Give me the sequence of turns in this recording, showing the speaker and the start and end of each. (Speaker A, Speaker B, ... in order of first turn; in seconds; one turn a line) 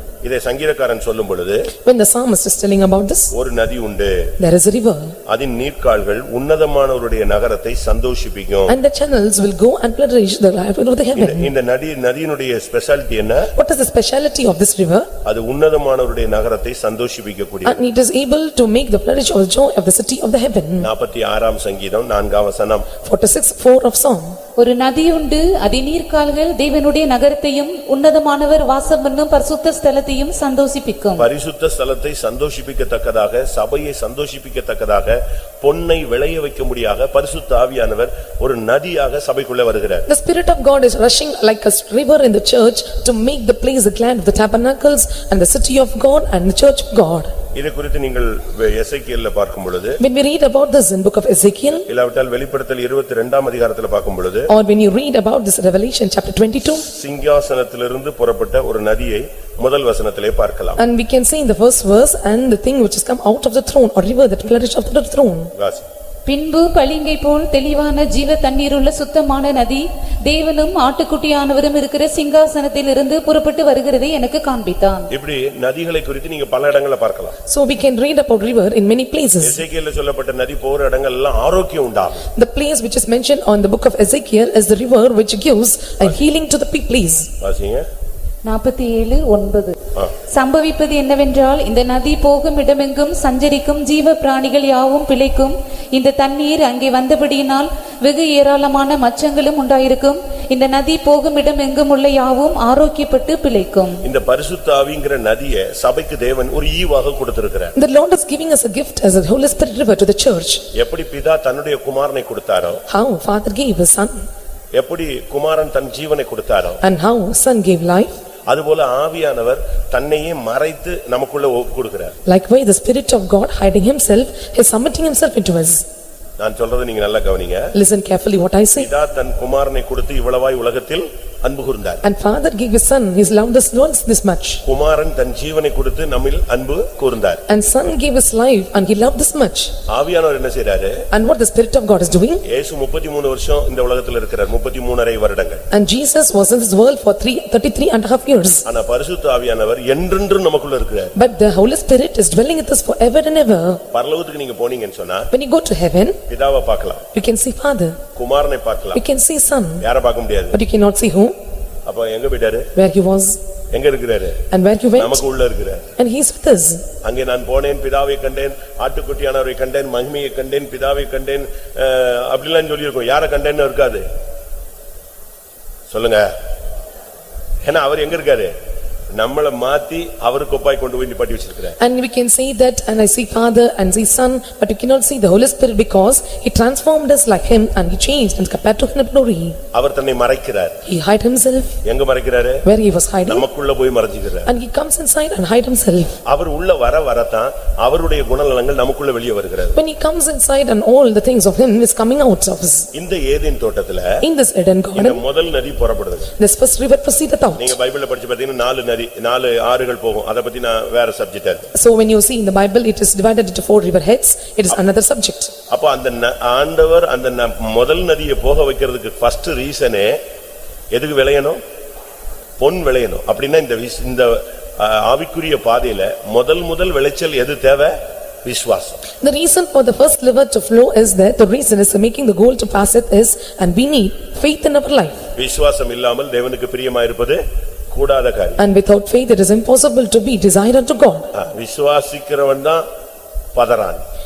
Speaker A: 0.2-1.7
Speaker B: 1.8-3.3
Speaker A: 3.3-4.3
Speaker B: 4.4-5.2
Speaker A: 5.3-8.8
Speaker B: 8.7-11.5
Speaker A: 11.2-13.5
Speaker B: 13.6-15.1
Speaker A: 15.2-17.8
Speaker B: 17.6-20.9
Speaker A: 20.8-22.9
Speaker B: 23.0-24.4
Speaker C: 24.6-31.3
Speaker A: 31.2-40.1
Speaker B: 40.1-47.3
Speaker A: 47.5-50.0
Speaker B: 50.0-51.9
Speaker A: 51.9-54.5
Speaker B: 54.5-56.9
Speaker A: 56.8-60.8
Speaker B: 60.8-65.5
Speaker A: 65.6-65.8
Speaker C: 66.3-75.1
Speaker A: 75.1-77.3
Speaker B: 77.5-79.6
Speaker A: 79.4-82.2
Speaker B: 82.3-87.3
Speaker A: 87.4-87.8
Speaker C: 88.4-89.8
Speaker C: 90.3-104.0
Speaker A: 104.0-107.7
Speaker B: 107.8-110.7
Speaker A: 110.8-112.8
Speaker B: 112.9-114.3
Speaker A: 114.8-116.8
Speaker B: 116.8-118.2
Speaker A: 118.5-122.2
Speaker B: 122.3-125.8
Speaker A: 126.4-127.7
Speaker B: 127.7-128.9
Speaker A: 128.8-132.0
Speaker B: 132.0-134.6
Speaker A: 134.7-137.4
Speaker B: 137.5-139.7
Speaker A: 139.9-141.0
Speaker B: 141.1-142.4
Speaker A: 142.5-145.6
Speaker B: 145.7-148.7
Speaker A: 148.7-151.1
Speaker B: 151.2-153.8
Speaker A: 153.9-155.3
Speaker B: 155.3-156.2
Speaker A: 156.3-157.1
Speaker B: 157.1-158.0
Speaker A: 158.2-159.0
Speaker B: 158.9-159.8
Speaker A: 159.8-160.6
Speaker B: 160.5-161.3
Speaker A: 161.9-162.7
Speaker B: 162.8-163.4
Speaker A: 163.7-164.4
Speaker B: 164.5-165.3
Speaker A: 165.0-165.9
Speaker B: 166.0-166.8
Speaker A: 167.0-174.0
Speaker A: 175.9-176.3
Speaker A: 177.6-178.5
Speaker A: 179.1-181.8
Speaker B: 181.8-189.6
Speaker A: 189.7-190.8
Speaker B: 190.8-191.8
Speaker A: 191.8-192.7
Speaker B: 192.7-193.4
Speaker A: 193.3-194.5
Speaker B: 194.5-196.2
Speaker A: 196.3-199.8
Speaker B: 199.7-202.9
Speaker A: 202.9-204.2
Speaker B: 204.2-205.2
Speaker A: 204.9-206.3
Speaker B: 206.4-207.8
Speaker A: 207.6-211.7
Speaker B: 211.7-215.5
Speaker A: 215.7-220.2
Speaker A: 220.9-221.6
Speaker A: 222.6-229.0
Speaker B: 229.2-235.2
Speaker A: 235.4-238.6
Speaker B: 238.6-241.3
Speaker A: 241.3-242.8
Speaker A: 243.5-244.0